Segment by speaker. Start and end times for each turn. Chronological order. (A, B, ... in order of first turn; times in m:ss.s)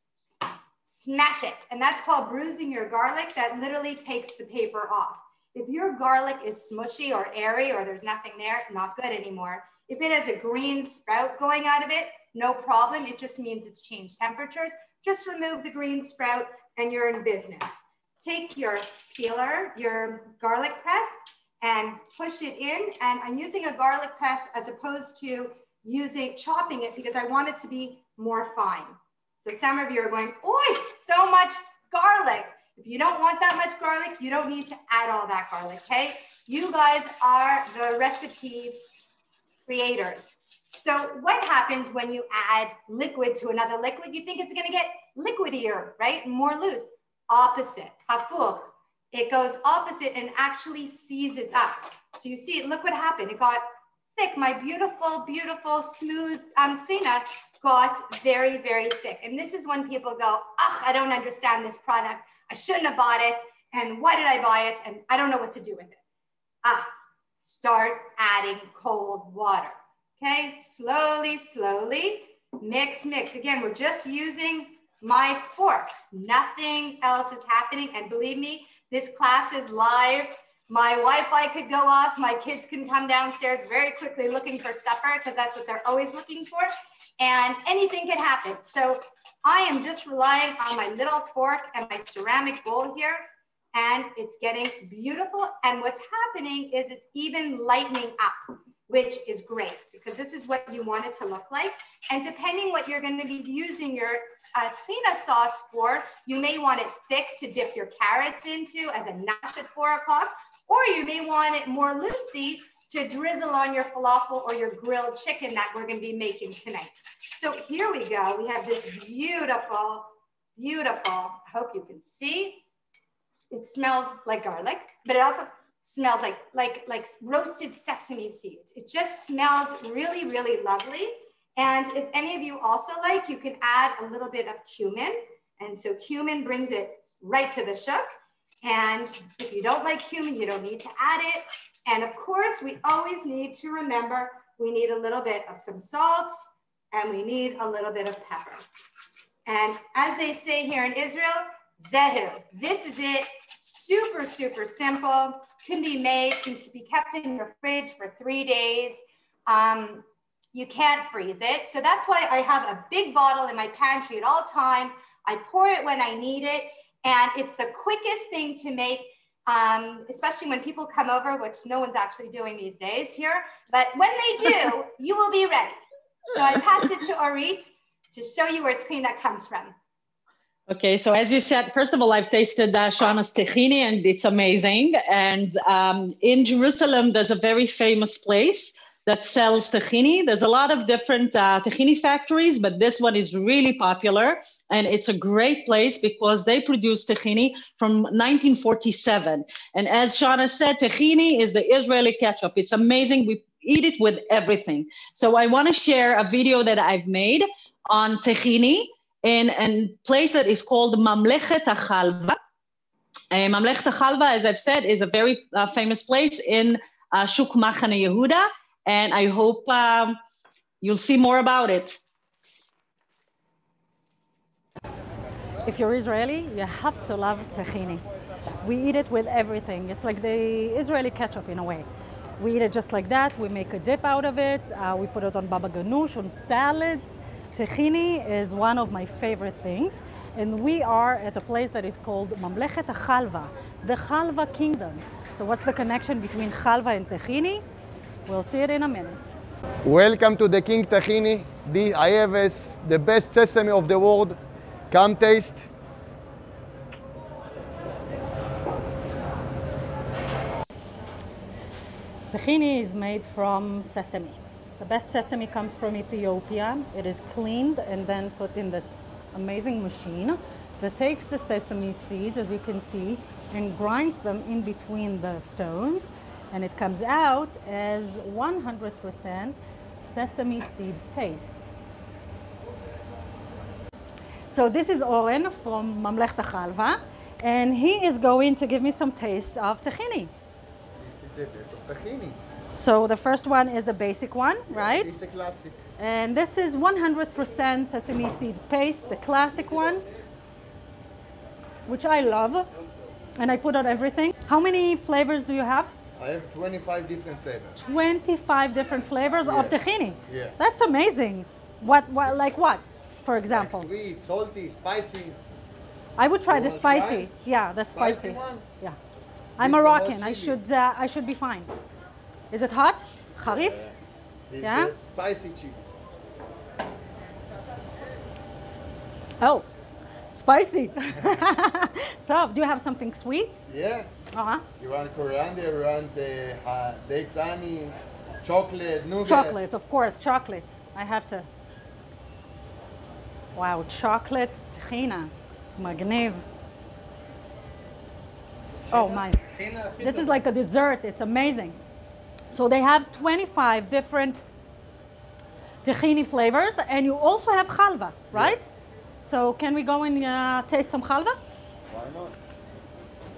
0:00.9-0:38.8 A
0:39.7-0:53.6 A
0:54.2-1:06.0 A
1:07.4-2:02.6 A
2:03.5-2:18.1 A
2:18.6-2:28.6 A
2:29.5-2:55.8 A
2:56.3-2:59.7 A
3:00.7-3:32.4 B
3:33.3-3:40.2 B
3:40.8-3:42.0 B
3:45.6-3:48.0 C
3:48.6-3:51.9 C
3:52.4-4:07.6 C
4:08.3-4:09.4 C
4:09.8-4:14.4 D
4:14.9-4:15.6 D
4:22.3-4:41.6 C
4:44.5-4:50.3 C
4:51.0-4:52.4 D
4:52.7-4:55.2 C
4:54.7-4:55.8 D
4:56.0-5:00.0 C
5:01.9-5:02.7 C
5:03.4-5:05.9 C
5:06.2-5:07.8 D
5:07.8-5:13.9 C
5:09.4-5:09.8 D
5:10.3-5:10.6 D
5:13.5-5:15.4 D
5:16.2-5:19.0 C
5:16.5-5:17.3 D
5:17.8-5:18.6 D
5:19.6-5:21.7 C
5:19.6-5:20.6 D
5:22.5-5:23.8 C
5:23.5-5:24.0 D
5:24.5-5:25.8 D
5:24.6-5:24.9 C
5:29.4-5:29.7 C
5:30.3-5:33.6 C
5:33.7-5:34.1 D
5:34.3-5:34.6 C
5:34.8-5:39.6 D
5:39.2-5:41.5 C
5:43.6-5:46.5 C
5:48.9-5:51.8 C
5:52.5-5:54.4 C
5:55.8-6:01.4 C
6:01.9-6:02.4 D